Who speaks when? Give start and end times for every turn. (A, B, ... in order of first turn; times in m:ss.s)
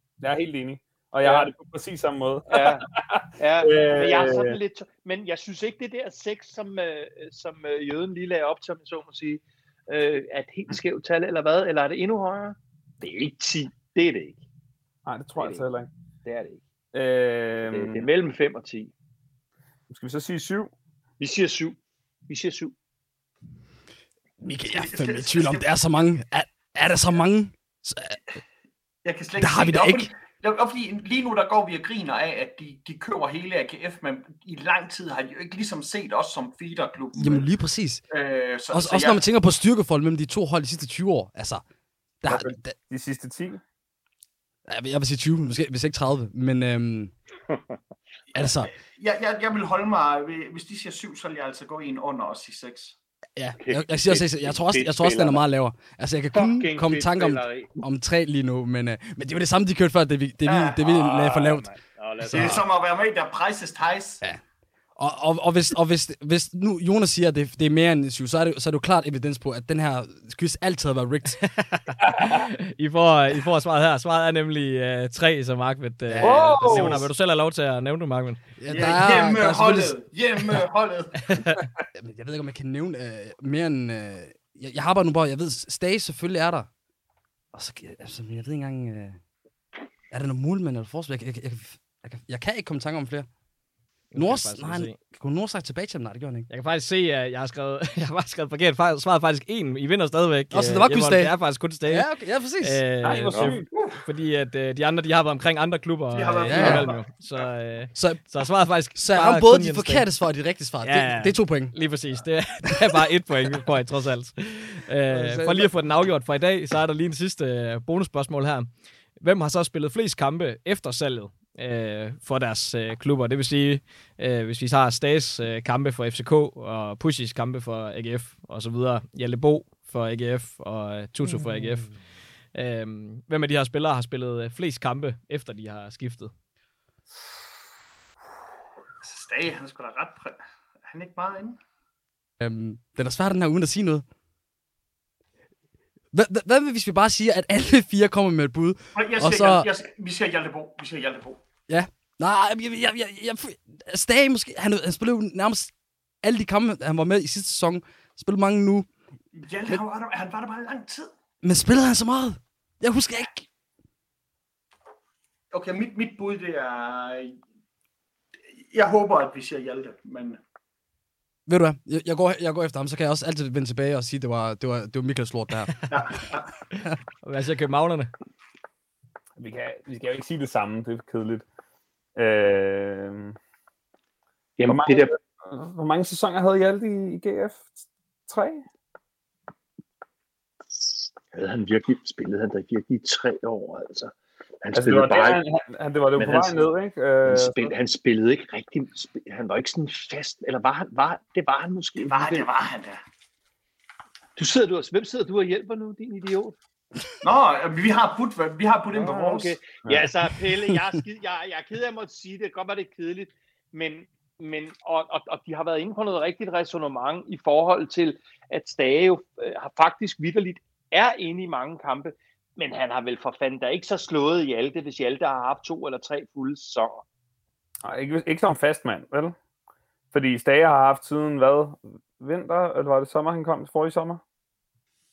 0:00.2-0:04.6 A
0:01.2-0:01.5 B
0:02.5-0:02.9 B
0:03.4-0:14.4 B
0:15.0-0:15.9 A
0:15.4-0:15.6 B
0:16.2-0:16.6 B
0:16.9-0:18.1 A
0:17.6-0:18.9 B
0:19.9-0:20.7 A
0:21.2-0:22.7 B
0:24.4-0:28.2 C
0:24.7-0:25.7 D
0:29.0-0:37.5 D
0:29.4-0:30.1 C
0:37.2-0:38.0 C
0:38.1-0:39.2 D
0:38.7-0:41.6 C
0:42.2-0:42.8 C
0:42.3-0:43.6 A
0:44.7-0:47.1 C
0:48.4-0:48.7 C
0:48.4-0:53.0 D
0:53.4-1:01.7 C
0:53.6-0:55.4 B
0:56.3-0:57.7 B
1:00.5-1:01.4 D
1:01.0-1:02.6 B
1:02.3-1:04.3 D
1:02.3-1:02.6 C
1:05.0-1:11.4 C
1:11.4-1:18.4 E
1:12.0-1:12.4 A
1:16.1-1:17.0 C
1:16.2-1:17.1 A
1:18.6-1:20.0 C
1:18.7-1:21.4 D
1:21.3-1:21.6 E
1:22.0-1:26.7 C
1:27.5-1:29.2 C
1:30.1-1:33.3 C
1:34.1-1:35.0 E
1:34.2-1:36.5 C
1:36.5-1:50.1 E
1:40.5-1:41.3 C
1:41.9-1:43.4 C
1:43.0-1:43.7 A
1:46.1-1:47.4 D
1:46.4-1:46.9 C
1:48.0-1:48.2 C
1:48.9-1:51.7 C
1:50.8-2:12.0 E
1:55.1-1:55.7 C
2:12.5-2:16.3 E
2:19.0-2:21.6 D
2:22.4-2:24.0 C
2:26.1-2:29.7 C
2:29.0-2:31.4 D
2:31.7-2:38.9 C
2:39.4-2:41.1 D
2:41.4-2:43.5 C
2:45.5-2:47.4 D
2:48.7-2:50.4 D
2:51.5-2:55.8 C
2:55.9-2:56.5 D
2:57.2-2:58.1 E
2:59.4-3:01.4 A
3:02.2-3:03.4 A
3:04.6-3:05.2 B
3:04.7-3:07.7 A
3:08.3-3:08.6 A
3:10.7-3:15.4 B
3:14.7-3:17.7 A
3:16.2-3:16.7 B
3:17.2-3:22.5 B
3:22.1-3:23.0 D
3:24.4-3:26.6 B
3:27.2-3:29.6 D
3:28.9-3:47.0 B
3:29.8-3:30.1 A
3:47.8-3:49.4 A
3:50.1-3:54.2 A